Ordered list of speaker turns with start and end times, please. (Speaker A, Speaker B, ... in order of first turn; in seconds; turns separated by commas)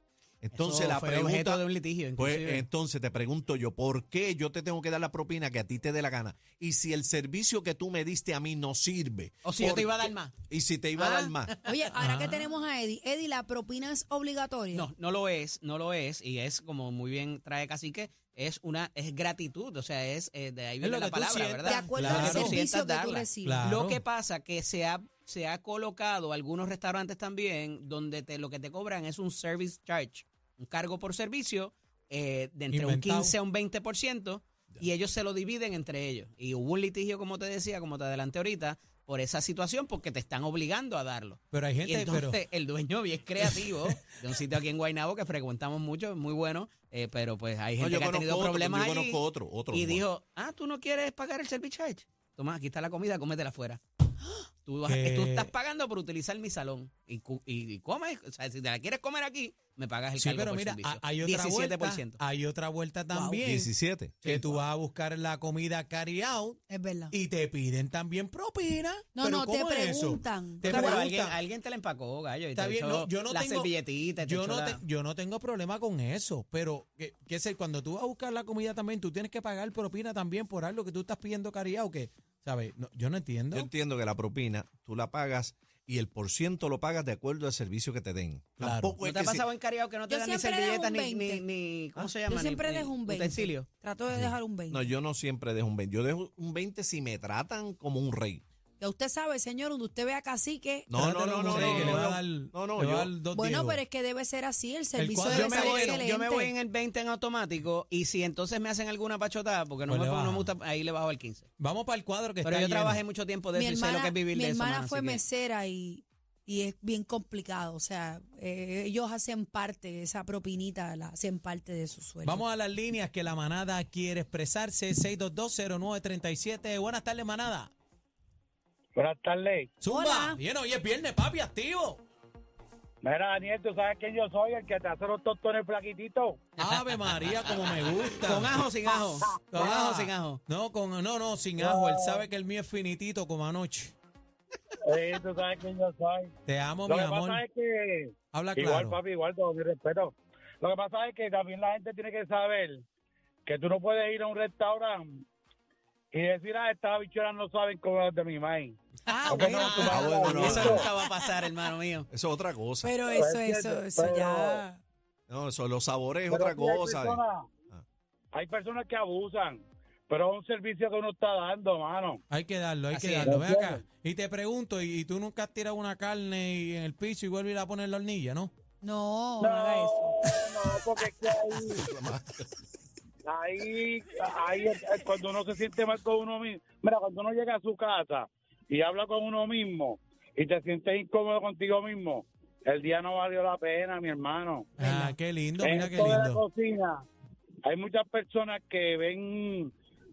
Speaker A: 0.4-1.6, Speaker B: 0.6-2.6, Speaker A: 2.1-11.5, Speaker B: 9.4-10.3, Speaker B: 10.9-11.6, Speaker C: 11.6-14.9, Speaker D: 11.9-12.5, Speaker B: 14.7-62.2, Speaker D: 20.8-22.6, Speaker C: 21.6-23.6, Speaker D: 23.4-24.0, Speaker D: 32.7-33.3, Speaker D: 41.5-42.4, Speaker D: 43.4-44.0, Speaker A: 47.8-50.0, Speaker D: 54.8-55.5, Speaker D: 60.1-63.7, Speaker C: 63.1-63.4, Speaker A: 63.4-64.1, Speaker B: 64.2-64.6, Speaker D: 64.2-66.6, Speaker C: 66.7-67.1, Speaker D: 67.1-71.4, Speaker C: 69.1-71.0, Speaker B: 70.7-74.8, Speaker D: 72.5-83.7, Speaker A: 83.5-89.4, Speaker D: 88.6-88.9, Speaker B: 89.0-93.7, Speaker C: 90.1-91.4, Speaker C: 92.3-94.9, Speaker A: 94.7-98.4, Speaker C: 98.8-102.1, Speaker A: 100.9-103.1, Speaker D: 101.0-103.8, Speaker C: 103.3-106.5, Speaker D: 105.0-106.0, Speaker B: 105.3-111.5, Speaker D: 109.9-110.5, Speaker D: 111.6-113.0, Speaker B: 112.4-115.2, Speaker C: 113.5-122.4, Speaker D: 122.2-127.7, Speaker E: 128.9-129.7, Speaker D: 129.8-132.0, Speaker C: 129.9-130.4, Speaker E: 133.0-136.4, Speaker D: 136.6-138.6, Speaker B: 138.2-140.4, Speaker E: 139.2-139.6, Speaker D: 139.5-143.9, Speaker E: 141.6-142.2, Speaker E: 144.8-146.3, Speaker D: 146.4-147.4, Speaker E: 146.9-152.8, Speaker D: 148.3-149.0, Speaker E: 153.4-155.2, Speaker E: 156.1-158.8, Speaker C: 159.1-161.2, Speaker E: 159.3-160.8, Speaker D: 159.4-159.8, Speaker A: 159.7-160.8, Speaker B: 160.5-162.1, Speaker A: 162.1-162.9, Speaker C: 162.8-164.8, Speaker E: 163.1-164.6, Speaker A: 165.3-167.8, Speaker E: 166.3-167.4, Speaker E: 168.3-172.2, Speaker D: 172.3-178.5, Speaker B: 172.9-173.3, Speaker E: 173.2-173.8, Speaker C: 178.8-180.3, Speaker E: 179.4-181.8, Speaker A: 181.8-182.4, Speaker E: 183.2-194.8, Speaker D: 194.8-196.4, Speaker C: 194.8-195.1, Speaker E: 195.6-197.1, Speaker E: 197.6-199.7